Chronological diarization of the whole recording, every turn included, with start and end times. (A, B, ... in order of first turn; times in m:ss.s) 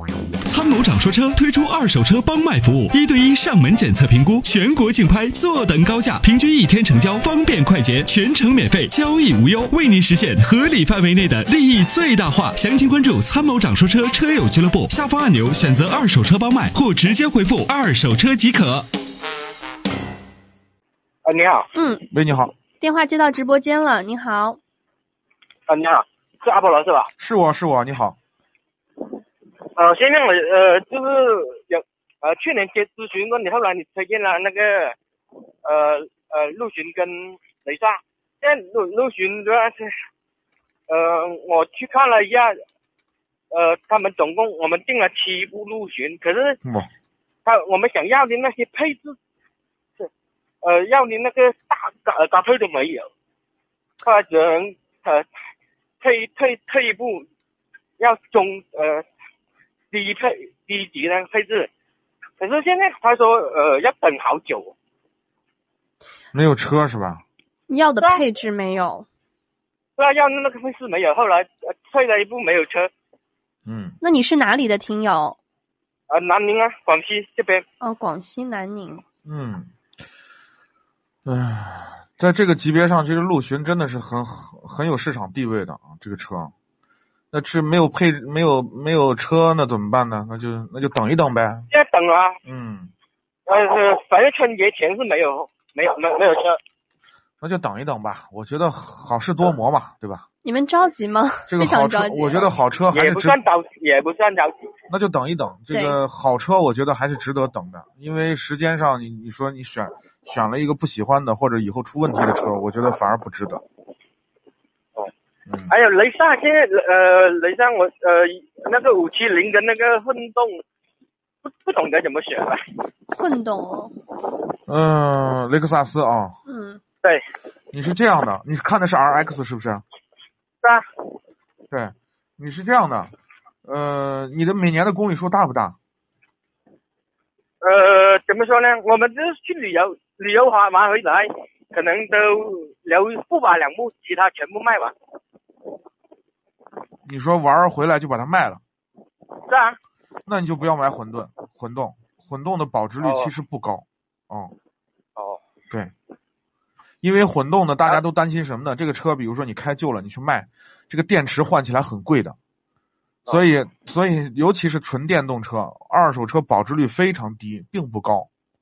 0:00.4-0:18.9 A
0:21.2-0:21.7 B
0:21.8-0:22.0 C
0:22.1-0:22.5 D
0:22.8-0:24.6 C
0:25.7-0:27.1 B
0:27.2-0:28.2 D
0:29.8-0:35.0 B
0:35.6-0:40.0 B
0:40.9-0:42.6 B
0:43.5-0:46.6 B
0:46.6-0:46.9 D
0:47.4-0:49.2 B
0:50.6-0:53.1 B
0:54.0-0:55.3 B
0:56.0-0:57.3 B
0:58.0-0:59.0 B
0:59.9-1:01.7 B
1:02.4-1:04.7 B
1:06.3-1:07.2 D
1:07.7-1:09.1 C
1:07.9-1:08.3 B
1:10.0-1:12.9 B
1:13.7-1:14.0 D
1:14.0-1:15.4 C
1:16.1-1:17.6 B
1:17.8-1:19.0 C
1:19.2-1:19.7 D
1:21.2-1:26.5 D
1:27.3-1:31.7 D
1:31.7-1:32.4 B
1:32.4-1:32.9 D
1:33.5-1:36.6 B
1:37.4-1:40.2 D
1:40.4-1:42.4 C
1:41.5-1:43.4 D
1:42.9-1:44.7 B
1:44.9-1:53.6 D
1:45.7-1:46.0 C
1:55.5-1:55.7 D
1:55.7-2:00.6 B
2:01.4-2:02.7 B
2:03.1-2:03.9 C
2:04.7-2:06.4 D
2:06.5-2:06.8 C
2:07.7-2:09.8 D
2:11.7-2:13.1 D
2:13.6-2:15.8 D
2:17.6-2:24.9 B
2:27.0-2:28.6 D
2:29.5-2:29.8 B
2:30.3-2:34.5 D
2:33.0-2:33.3 B
2:35.2-2:35.4 B
2:37.0-2:42.4 D
2:43.3-2:48.3 D